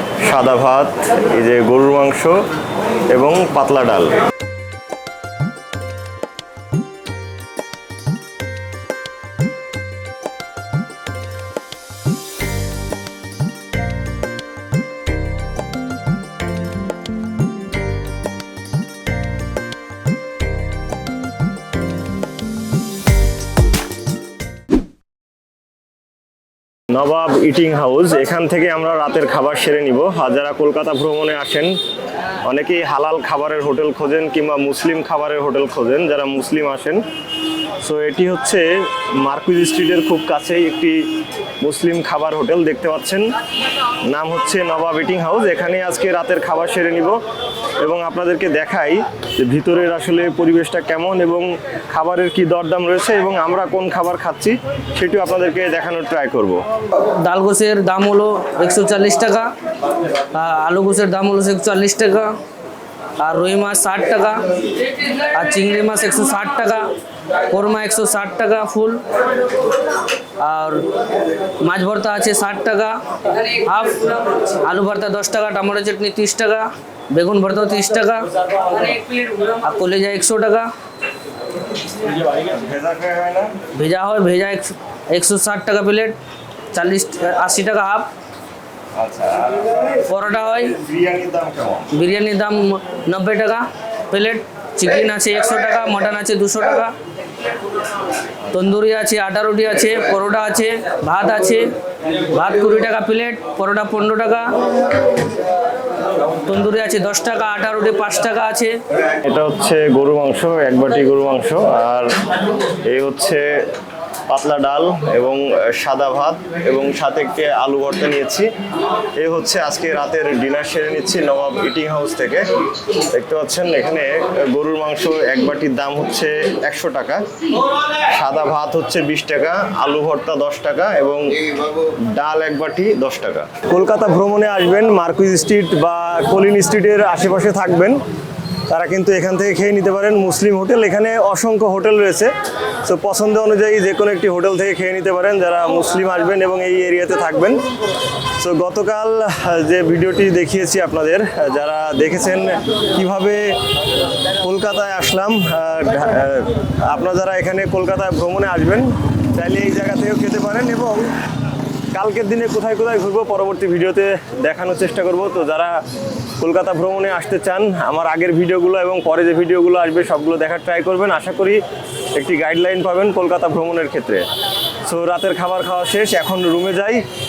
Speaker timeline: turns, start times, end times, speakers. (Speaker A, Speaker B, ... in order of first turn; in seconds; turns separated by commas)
Speaker A: 0.2-2.4, Speaker A: 3.1-4.2, Speaker A: 26.9-31.8, Speaker A: 32.5-37.0, Speaker A: 37.8-41.0, Speaker A: 41.6-43.2, Speaker A: 44.1-47.2, Speaker A: 47.8-56.6, Speaker B: 57.0-62.4, Speaker B: 63.2-80.7, Speaker A: 82.3-83.6, Speaker B: 83.7-86.2, Speaker B: 86.7-88.1, Speaker A: 89.0-91.9, Speaker B: 90.0-90.8, Speaker B: 91.9-96.9, Speaker B: 98.4-105.3, Speaker B: 106.3-108.8, Speaker A: 109.2-112.1, Speaker A: 112.7-113.5, Speaker A: 114.3-118.5, Speaker A: 119.2-122.5, Speaker A: 123.1-127.3, Speaker A: 127.8-138.0, Speaker A: 138.7-147.6, Speaker A: 148.4-153.5, Speaker A: 154.1-161.1, Speaker A: 161.9-165.8, Speaker A: 166.4-171.6, Speaker A: 172.2-174.2, Speaker A: 174.9-177.0